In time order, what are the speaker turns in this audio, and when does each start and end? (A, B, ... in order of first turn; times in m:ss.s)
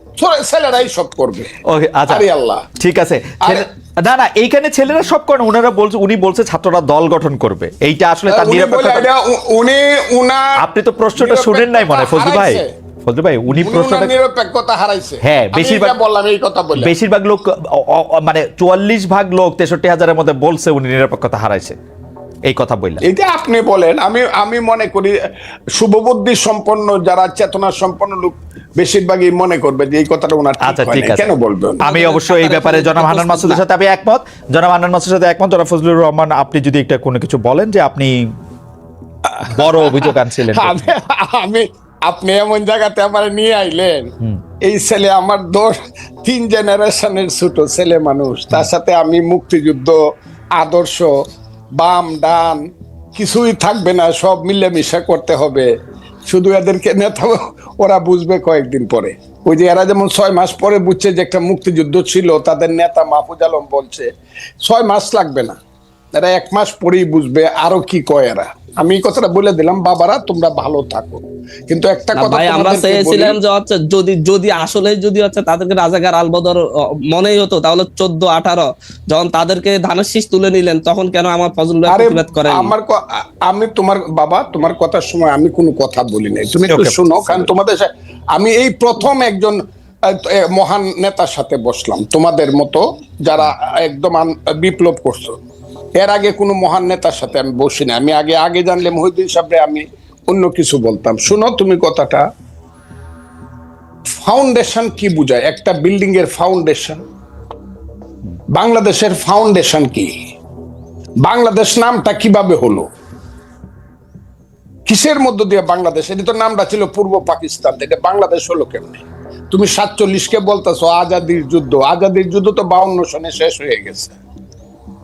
0:00.2-0:01.5 A
0:01.7-0:02.2 B
0:02.1-0:02.7 A
0:02.8-0:09.1 B
0:08.3-0:10.6 A
0:10.6-0:14.1 B
0:11.2-0:12.7 A
0:13.5-0:16.9 A
0:15.2-0:16.0 B
0:16.8-0:21.8 B
0:22.5-0:23.0 B
0:23.0-0:25.2 A
0:25.7-0:31.8 A
0:30.6-0:31.3 B
0:31.8-0:38.2 B
0:31.8-0:33.6 C
0:39.3-0:44.1 A
0:39.5-0:40.8 B
0:44.6-0:50.0 A
0:50.6-0:51.1 A
0:51.8-0:52.6 A
0:53.2-0:55.7 A
0:56.3-1:04.1 A
1:04.6-1:05.6 A
1:06.2-1:13.4 A
1:12.2-1:22.7 C
1:21.9-1:35.4 A
1:26.7-1:27.4 B
1:36.0-1:42.2 A
1:44.2-1:47.0 A
1:48.5-1:50.1 A
1:51.2-1:52.9 A
1:54.9-2:04.2 A